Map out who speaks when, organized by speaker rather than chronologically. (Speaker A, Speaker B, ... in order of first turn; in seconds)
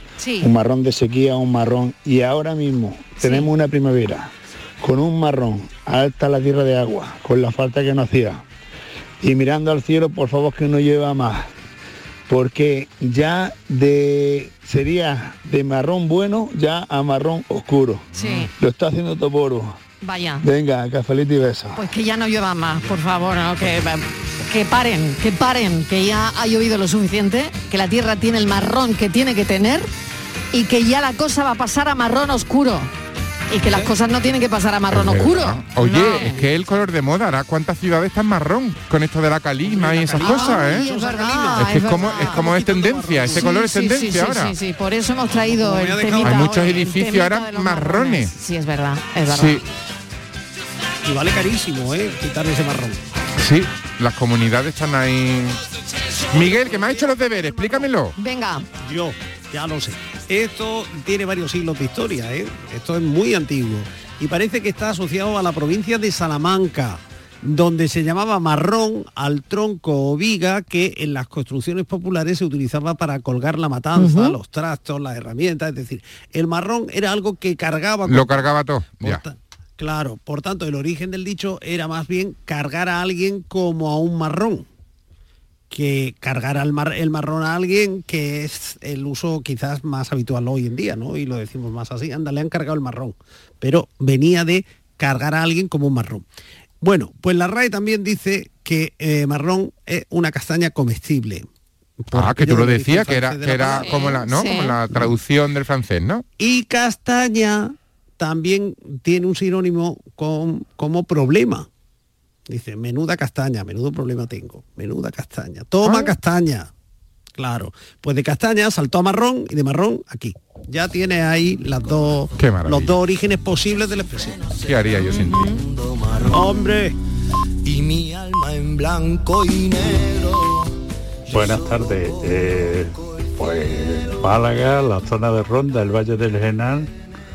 Speaker A: 0.2-0.5, 3.2-3.5, 18.1-18.5, 20.0-20.4, 21.8-29.9, 30.5-32.9, 33.5-36.4, 40.2-42.5, 43.3-49.6, 58.2-58.7, 74.0-74.4, 103.7-104.8
Speaker B: 0.4-8.4, 9.2-11.5, 12.3-19.8, 20.4-21.9
Speaker C: 34.9-40.9, 41.5-44.5, 46.2-48.3, 49.3-49.6, 53.4-55.6, 56.3-58.1, 78.1-79.2, 102.1-106.2, 115.8-116.2, 122.4-123.0, 124.5-125.6
Speaker D: 35.9-36.5, 39.6-43.5, 45.3-46.7, 51.0-53.0, 56.4-57.9, 58.8-84.7, 85.7-96.3, 96.8-101.5, 102.0-104.3, 106.4-111.7, 112.5-116.7, 117.4-124.5, 126.3-127.0
Speaker E: 127.8-129.8
Speaker F: 131.3-136.9